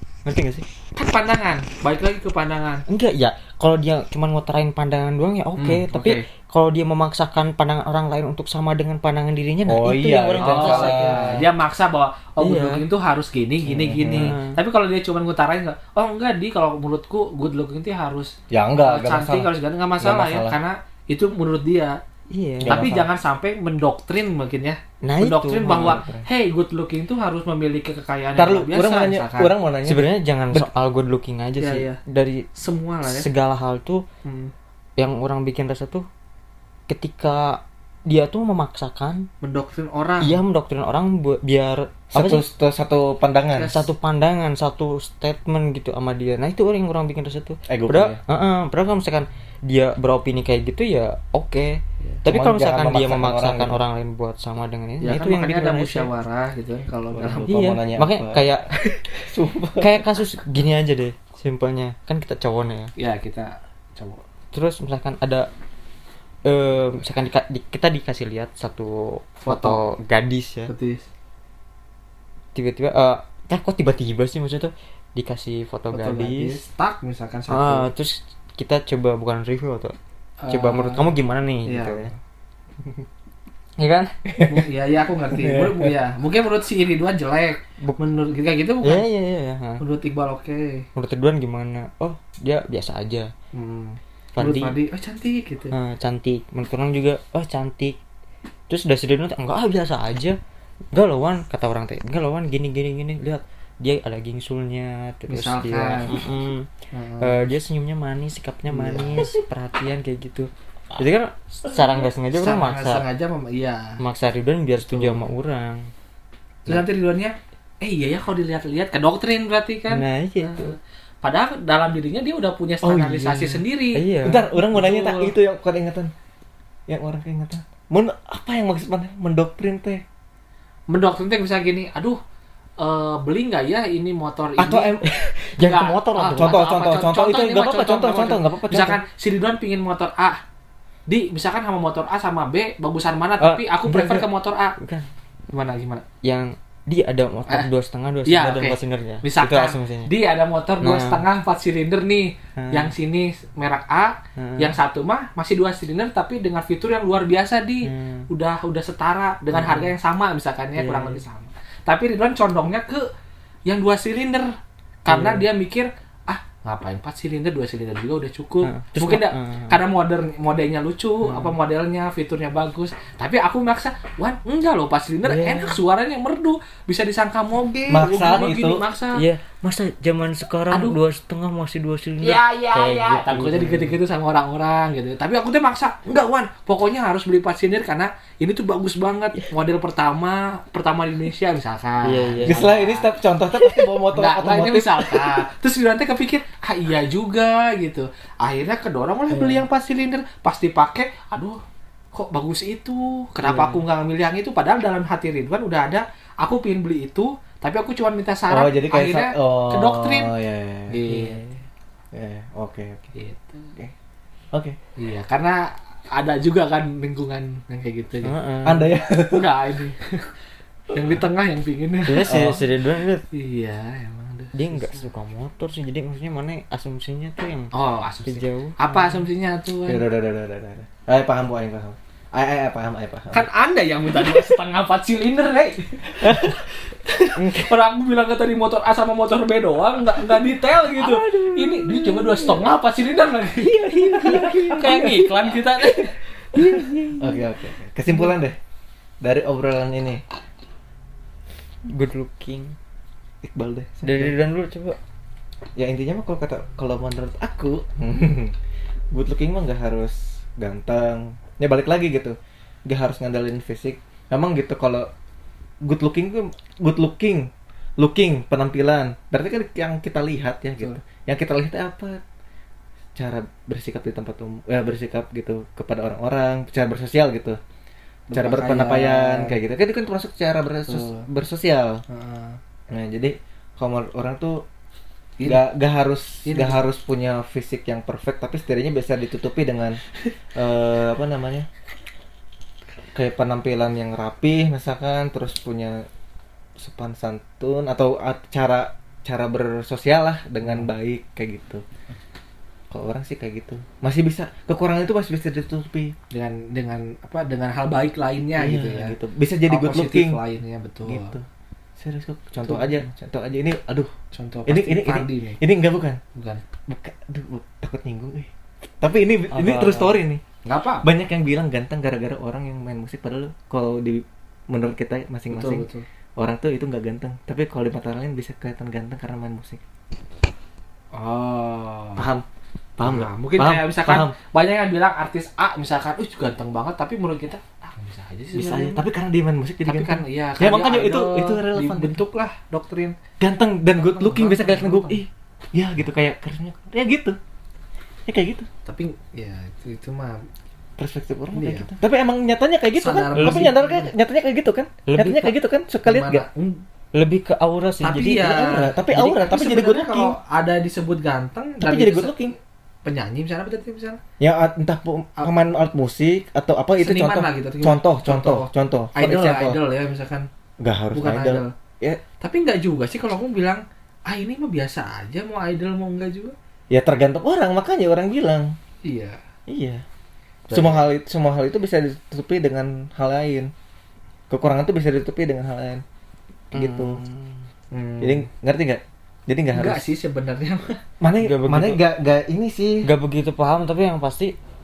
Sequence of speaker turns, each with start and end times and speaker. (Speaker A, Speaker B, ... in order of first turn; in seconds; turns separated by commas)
Speaker A: 0.2-0.7, Speaker B: 0.9-2.8, Speaker A: 2.9-11.3, Speaker B: 5.6-5.9, Speaker C: 5.9-6.2, Speaker C: 9.7-11.4, Speaker B: 10.4-22.0, Speaker A: 12.4-12.8, Speaker C: 13.7-14.3, Speaker A: 14.1-14.6, Speaker C: 18.5-20.6, Speaker A: 22.3-22.8, Speaker C: 22.6-23.1, Speaker B: 22.6-29.5, Speaker A: 25.0-26.0, Speaker C: 25.6-26.2, Speaker C: 28.4-30.7, Speaker A: 29.9-32.5, Speaker B: 31.6-32.0, Speaker B: 32.5-33.3, Speaker A: 33.0-34.0, Speaker B: 34.2-34.5, Speaker A: 35.0-36.0, Speaker A: 36.9-39.3, Speaker B: 39.4-40.4, Speaker A: 40.2-42.4, Speaker C: 42.1-43.8, Speaker B: 43.6-43.9, Speaker A: 43.6-56.1, Speaker C: 47.7-48.2, Speaker C: 52.3-53.8, Speaker B: 55.0-57.8, Speaker C: 57.1-58.4, Speaker A: 57.5-59.2, Speaker C: 59.2-60.0, Speaker A: 59.8-62.9, Speaker B: 63.0-64.2, Speaker A: 64.5-65.5, Speaker A: 66.4-70.7, Speaker B: 69.5-69.8, Speaker B: 70.7-71.1, Speaker A: 72.5-76.6, Speaker B: 75.9-77.9, Speaker A: 77.5-80.0, Speaker B: 80.4-81.1, Speaker A: 80.5-82.1, Speaker B: 81.6-82.1, Speaker A: 83.8-84.1, Speaker C: 84.3-84.6, Speaker B: 84.5-89.0, Speaker C: 85.3-85.9, Speaker A: 87.8-88.0, Speaker A: 88.8-89.8, Speaker B: 89.8-90.8, Speaker A: 91.0-93.3, Speaker B: 93.5-95.7, Speaker A: 94.3-94.8, Speaker A: 95.7-98.0, Speaker A: 98.7-100.4, Speaker A: 100.9-113.0, Speaker B: 105.3-106.2, Speaker B: 106.9-107.4, Speaker B: 108.7-109.4, Speaker B: 111.7-114.0, Speaker A: 114.0-115.9, Speaker B: 114.9-115.3, Speaker B: 116.7-124.0, Speaker A: 119.9-120.7, Speaker C: 122.8-123.5, Speaker A: 123.5-124.5, Speaker C: 124.2-126.1, Speaker B: 124.6-125.3, Speaker C: 126.9-130.0, Speaker B: 130.9-132.2, Speaker B: 132.8-134.9, Speaker C: 134.6-135.1, Speaker A: 135.0-136.6, Speaker B: 135.6-140.4, Speaker C: 136.3-139.0, Speaker B: 141.1-144.8, Speaker A: 143.4-145.1, Speaker B: 145.5-146.0, Speaker A: 146.2-150.1, Speaker B: 148.2-163.1, Speaker A: 150.8-151.2, Speaker A: 152.6-152.9, Speaker A: 154.4-154.8, Speaker A: 157.8-158.3, Speaker A: 159.5-159.9, Speaker A: 160.8-161.2, Speaker B: 163.7-179.2, Speaker A: 165.1-165.4, Speaker A: 168.6-169.8, Speaker A: 171.3-171.5, Speaker A: 175.2-175.8, Speaker C: 177.9-178.8, Speaker A: 178.2-178.5, Speaker A: 179.1-184.0, Speaker B: 180.7-181.0, Speaker B: 182.2-193.1, Speaker A: 192.0-192.7, Speaker C: 192.5-195.5, Speaker B: 193.8-201.6, Speaker B: 202.1-210.3, Speaker C: 208.5-211.3, Speaker B: 210.9-211.6, Speaker C: 212.1-213.1, Speaker B: 213.1-213.7, Speaker B: 215.0-218.3, Speaker A: 218.2-218.9, Speaker C: 218.6-219.5, Speaker B: 219.3-220.3, Speaker B: 220.9-222.6, Speaker A: 222.1-223.2, Speaker C: 222.3-222.6, Speaker B: 223.3-225.0, Speaker A: 224.5-229.2, Speaker B: 227.7-230.0, Speaker C: 229.9-233.5, Speaker B: 233.3-246.2, Speaker C: 236.2-236.6, Speaker A: 237.3-237.7, Speaker A: 240.9-242.7, Speaker A: 243.6-245.6, Speaker C: 243.8-245.2, Speaker A: 246.5-247.4, Speaker C: 247.2-248.6, Speaker C: 249.2-250.2, Speaker A: 251.9-252.8, Speaker C: 253.4-254.3, Speaker A: 254.0-255.0, Speaker C: 255.8-258.5, Speaker C: 259.1-262.4, Speaker C: 262.9-265.1, Speaker C: 265.8-272.2, Speaker C: 273.1-277.6, Speaker B: 278.3-279.5, Speaker C: 278.3-282.0, Speaker B: 280.9-281.3, Speaker B: 282.1-282.6, Speaker C: 282.9-284.6, Speaker C: 285.4-290.0, Speaker B: 286.4-286.8, Speaker C: 290.5-291.7, Speaker C: 293.1-296.1, Speaker C: 296.8-301.8, Speaker C: 302.9-306.1, Speaker B: 306.3-309.1, Speaker C: 308.6-310.4, Speaker B: 309.7-311.3, Speaker C: 311.0-311.4, Speaker C: 312.0-314.1, Speaker B: 312.6-313.0, Speaker B: 314.3-315.6, Speaker C: 314.7-316.2, Speaker B: 316.3-316.6, Speaker C: 316.9-318.5, Speaker C: 319.0-320.4, Speaker B: 319.5-320.1, Speaker B: 320.6-321.1, Speaker C: 321.0-325.9, Speaker B: 325.5-326.0, Speaker C: 326.4-329.8, Speaker B: 331.1-332.3, Speaker C: 332.2-332.4, Speaker C: 333.0-334.3, Speaker B: 333.0-339.0, Speaker C: 338.5-342.2, Speaker B: 339.9-343.2, Speaker C: 343.4-347.4, Speaker B: 344.0-345.2, Speaker C: 348.3-348.7, Speaker B: 348.9-350.4, Speaker C: 351.0-356.4, Speaker B: 351.5-351.9, Speaker B: 353.0-354.1, Speaker A: 353.4-353.7, Speaker A: 355.1-355.5, Speaker B: 356.0-356.8, Speaker A: 357.1-359.4, Speaker B: 358.0-362.3, Speaker C: 358.4-360.3, Speaker C: 361.8-362.5, Speaker B: 363.0-364.2, Speaker C: 364.4-369.8, Speaker B: 367.0-370.5, Speaker C: 370.8-372.2, Speaker B: 371.1-371.7, Speaker B: 372.4-376.5, Speaker C: 376.9-378.7, Speaker B: 379.0-379.4, Speaker C: 379.7-380.0, Speaker B: 380.7-381.0, Speaker C: 380.7-383.7, Speaker C: 384.5-386.0, Speaker C: 386.7-387.2, Speaker A: 386.7-387.5, Speaker B: 387.9-388.5, Speaker C: 388.2-390.0, Speaker B: 389.7-391.0, Speaker C: 391.2-393.1, Speaker A: 391.4-392.0, Speaker A: 393.0-394.5